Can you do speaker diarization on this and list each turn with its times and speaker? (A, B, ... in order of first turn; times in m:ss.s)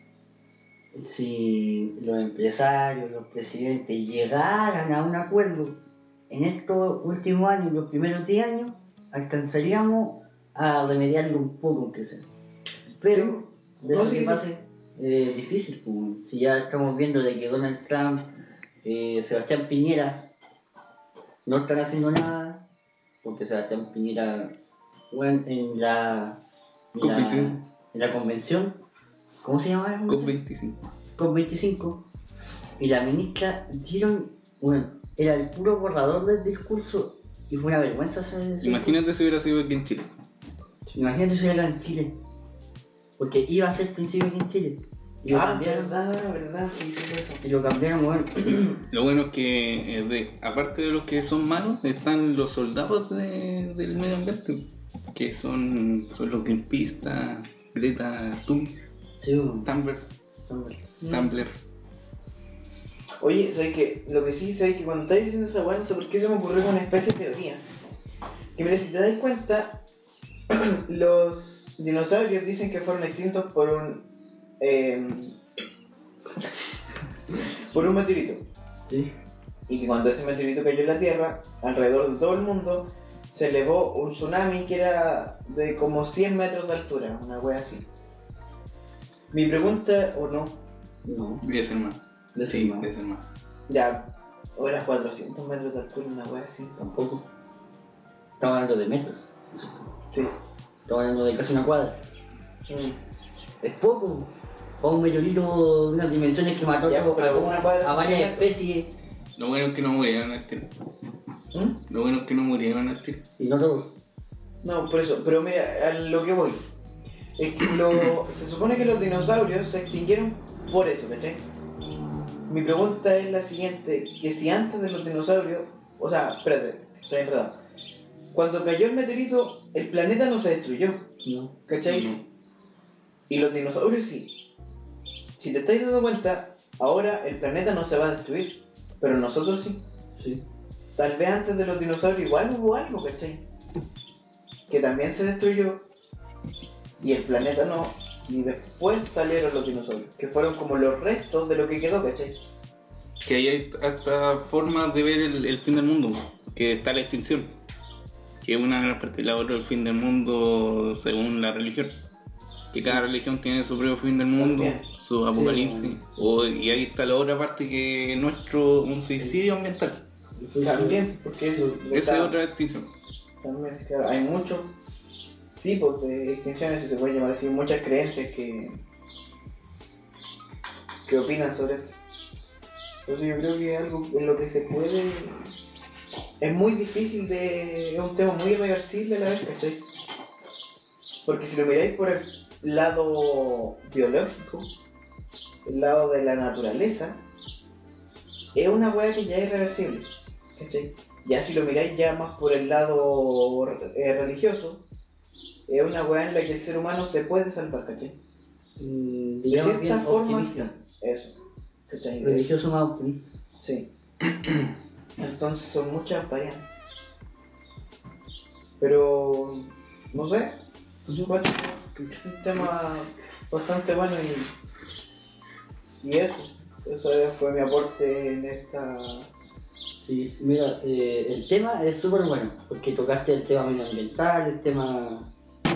0:00.9-0:12.2 A
0:13.0-0:18.3 A
0:13.1-0:14.4 B
0:18.8-0:20.3 A
0:21.4-0:22.6 A
0:23.2-0:24.5 A
0:25.1-0:26.4 A
0:26.9-0:28.8 A
0:27.0-0:27.5 C
0:29.4-0:30.4 A
0:30.1-0:30.8 C
0:31.2-0:32.0 A
0:32.8-0:39.0 A
0:38.6-0:40.1 C
0:40.9-0:42.2 A
0:43.2-0:45.9 A
0:45.3-0:47.4 B
0:47.4-0:48.7 A
0:48.9-0:58.7 C
0:59.2-0:59.7 A
0:59.6-1:00.0 C
1:00.5-1:00.8 A
1:01.0-1:01.3 B
1:01.1-1:01.5 C
1:03.2-1:07.6 B
1:08.6-1:09.8 B
1:10.5-1:14.1 B
1:14.6-1:15.4 B
1:17.7-1:18.4 B
1:19.7-1:27.8 B
1:29.3-1:30.6 B
1:31.0-1:31.4 A
1:31.4-1:33.2 C
1:32.3-1:32.9 A
1:33.7-1:36.8 B
1:36.8-1:37.2 A
1:38.4-1:39.8 A
1:40.8-1:42.0 A
1:42.7-1:43.0 B
1:43.6-1:48.9 A
1:46.8-1:48.5 B
1:49.4-1:50.7 C
1:51.5-1:51.8 B
1:51.9-1:53.2 C
1:53.4-1:53.9 A
1:54.6-1:56.6 B
1:57.4-2:01.4 B
2:02.5-2:07.6 B
2:08.3-2:11.1 B
2:11.2-2:11.5 A
2:11.7-2:12.1 B
2:11.8-2:12.2 C
2:13.3-2:14.4 B
2:15.4-2:19.8 B
2:20.2-2:20.4 A
2:20.9-2:23.4 B
2:24.7-2:25.8 B
2:27.0-2:32.4 B
2:33.2-2:37.5 C
2:38.4-2:42.0 C
2:42.7-2:50.0 C
2:44.4-2:44.8 B
2:45.3-2:46.0 A
2:50.4-2:51.8 A
2:50.6-2:52.4 B
2:51.9-2:52.9 C
2:53.4-2:54.7 B
2:55.6-2:58.8 B
3:01.0-3:02.0 B
3:03.0-3:05.5 B
3:06.4-3:09.8 B
3:11.2-3:14.7 B
3:15.6-3:17.2 B
3:18.5-3:24.8 B
3:25.7-3:28.2 B
3:28.8-3:30.7 A
3:29.5-3:31.3 B
3:31.9-3:32.5 B
3:32.2-3:33.2 A
3:33.6-3:33.9 B
3:35.2-3:36.6 B
3:38.8-3:40.6 B
3:41.1-3:41.3 A
3:41.2-3:44.5 B
3:46.0-3:49.3 B
3:50.0-3:55.3 A